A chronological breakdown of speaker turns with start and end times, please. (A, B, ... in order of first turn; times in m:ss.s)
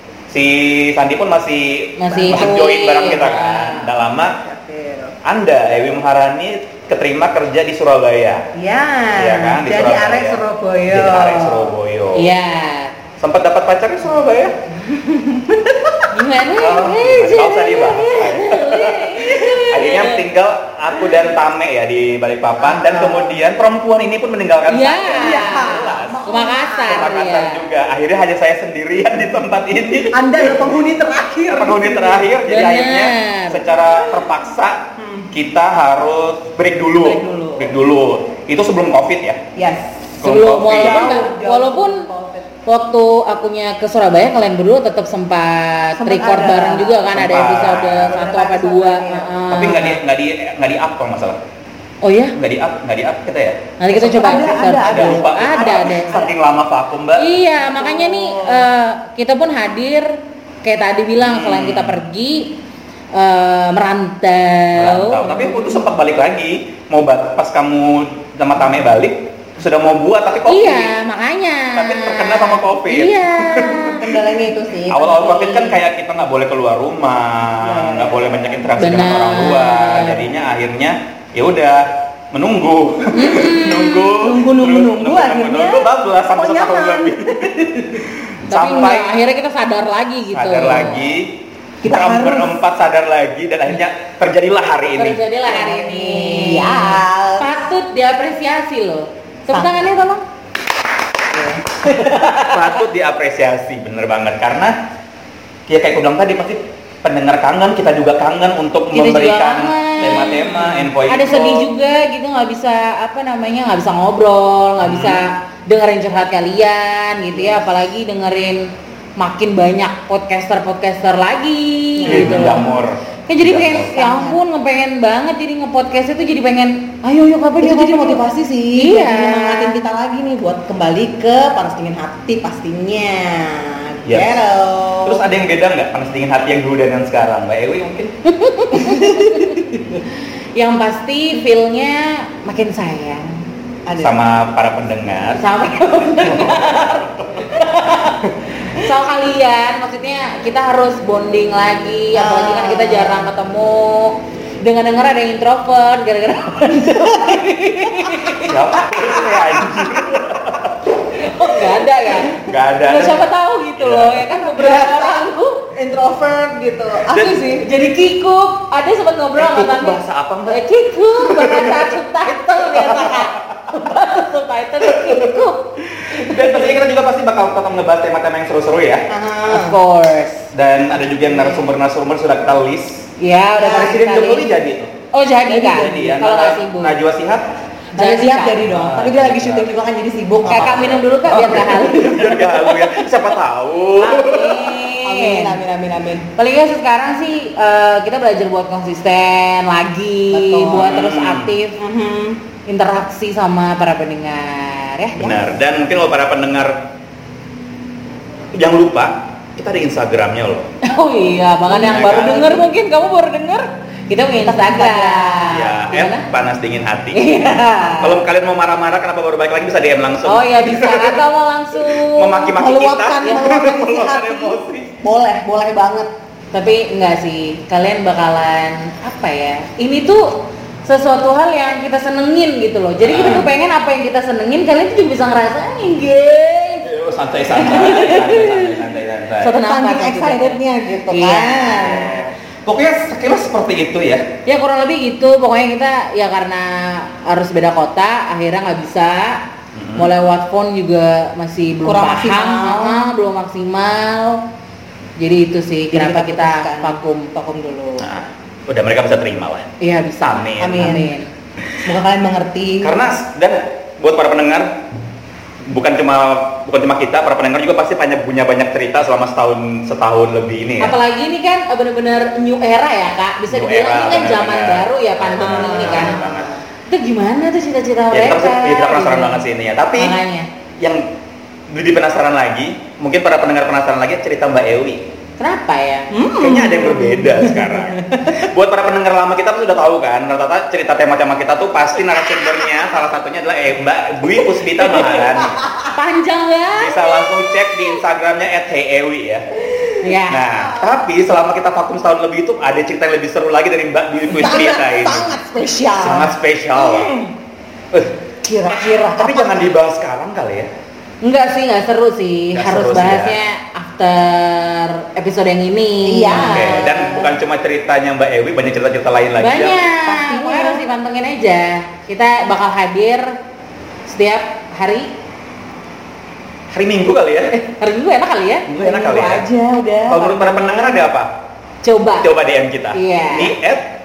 0:00.3-0:04.4 A
0:02.0-0:03.9 B
0:02.1-0:02.7 C
0:04.1-0:05.1 C
0:05.2-0:08.5 A
0:08.6-0:11.8 C
0:09.2-0:12.3 A
0:12.1-0:12.9 B
0:13.2-0:14.6 A
0:14.9-0:16.0 C
0:16.1-0:20.2 B
0:16.6-0:26.2 A
0:22.6-0:23.3 C
0:24.7-0:27.6 B
0:25.1-0:27.2 C
0:26.9-0:30.7 A
0:30.1-0:32.3 C
0:31.5-0:34.8 A
0:32.4-0:33.7 B
0:35.0-0:35.3 C
0:35.3-0:39.4 A
0:37.0-0:37.8 C
0:39.6-0:40.0 C
0:40.2-0:41.3 A
0:40.2-0:42.0 B
0:40.7-0:42.5 C
0:42.7-0:50.0 B
0:46.0-0:49.4 C
0:47.1-0:48.1 A
0:49.5-0:51.4 A
0:52.0-0:52.4 B
0:52.4-0:53.6 A
0:53.8-0:56.2 B
0:53.9-0:56.4 C
0:54.1-0:57.3 A
0:57.2-1:00.1 B
0:57.6-0:58.7 C
1:00.6-1:02.5 B
1:01.2-1:02.0 A
1:03.1-1:05.8 B
1:04.8-1:10.9 A
1:10.5-1:14.0 B
1:11.8-1:14.0 A
1:13.8-1:15.8 C
1:14.9-1:27.5 A
1:17.6-1:18.7 C
1:18.8-1:20.3 B
1:23.1-1:24.1 B
1:24.1-1:28.1 C
1:28.5-1:29.2 A
1:28.5-1:31.0 B
1:30.3-1:35.2 A
1:31.8-1:32.6 C
1:35.0-1:40.2 B
1:35.5-1:37.5 C
1:39.5-1:39.9 C
1:41.3-1:42.1 C
1:41.8-1:44.8 A
1:45.7-1:51.7 A
1:48.9-1:58.7 B
1:54.8-1:55.2 A
1:57.3-1:57.6 C
1:59.2-2:02.7 B
2:02.0-2:02.7 C
2:02.1-2:03.9 A
2:03.3-2:08.2 B
2:03.7-2:04.4 C
2:07.6-2:15.4 C
2:08.8-2:09.8 B
2:14.1-2:14.4 A
2:15.0-2:18.1 A
2:18.3-2:20.0 B
2:18.8-2:19.6 C
2:20.6-2:23.4 B
2:23.9-2:24.2 C
2:24.0-2:25.4 A
2:25.3-2:38.6 B
2:26.3-2:27.4 A
2:32.1-2:33.3 C
2:38.4-2:41.4 A
2:39.0-2:39.8 C
2:41.1-2:45.6 B
2:42.4-2:44.3 A
2:44.5-2:47.7 C
2:47.1-2:47.4 A
2:47.5-2:55.6 B
2:49.4-2:50.6 A
2:51.2-2:51.9 A
2:52.7-2:53.3 A
2:54.8-2:55.4 A
2:56.0-2:59.1 A
2:59.1-2:59.8 C
2:59.5-3:00.5 B
3:00.5-3:03.0 A
3:01.3-3:01.7 C
3:03.2-3:04.5 B
3:03.6-3:04.9 A
3:05.1-3:07.0 B
3:05.5-3:06.0 C
3:05.7-3:07.5 A
3:08.0-3:08.7 B
3:08.0-3:12.8 C
3:08.7-3:09.7 A
3:10.5-3:12.5 B
3:10.5-3:14.8 A
3:14.0-3:15.6 B
3:15.0-3:16.3 C
3:16.4-3:21.8 B
3:20.3-3:21.1 C
3:20.7-3:21.5 A
3:21.8-3:22.4 C
3:22.7-3:25.5 B
3:25.2-3:26.8 A
3:28.6-3:30.7 A
3:30.8-3:36.3 B
3:31.7-3:32.6 A
3:34.4-3:35.6 C
3:35.5-3:37.2 A
3:37.1-3:38.2 B
3:38.0-3:45.0 A
3:40.2-3:42.5 B
3:42.5-3:46.1 C
3:46.5-3:56.9 B
3:53.0-3:53.5 A
3:56.8-3:59.5 A
3:57.5-3:58.8 B
3:59.4-4:02.3 B
3:59.6-4:02.3 C
4:02.6-4:04.2 A
4:04.5-4:09.4 B
4:09.8-4:10.1 A
4:10.0-4:14.4 B
4:11.8-4:13.0 C
4:15.2-4:17.3 B
4:15.9-4:18.1 C
4:18.0-4:19.7 A
4:19.8-4:21.3 B
4:20.2-4:20.9 A
4:20.6-4:21.2 C
4:21.8-4:23.0 C
4:22.8-4:24.8 A
4:25.7-4:31.0 A
4:30.8-4:36.2 B
4:33.5-4:36.5 A
4:35.4-4:36.5 C
4:36.9-4:39.4 B
4:38.1-4:40.2 A
4:40.0-4:40.5 B
4:40.8-4:41.0 A
4:41.7-4:45.0 A
4:45.4-4:46.2 B
4:46.1-4:48.3 C
4:46.3-4:55.6 A
4:54.4-4:55.9 C
4:55.9-4:57.3 B
4:56.8-4:59.5 A
5:00.0-5:00.5 B
5:00.3-5:05.4 A
5:04.3-5:07.3 C
5:06.0-5:07.2 A
5:08.4-5:09.7 C
5:09.1-5:10.7 A
5:11.2-5:17.0 B
5:12.5-5:13.4 A
5:16.1-5:17.4 C
5:16.3-5:19.8 A
5:19.4-5:23.3 B
5:20.0-5:20.9 C
5:24.1-5:25.1 B
5:26.7-5:27.6 A
5:27.5-5:28.8 B
5:28.7-5:29.5 A
5:28.8-5:31.1 C
5:30.1-5:31.3 A
5:31.8-5:32.3 B
5:32.2-5:33.9 A
5:32.9-5:33.6 B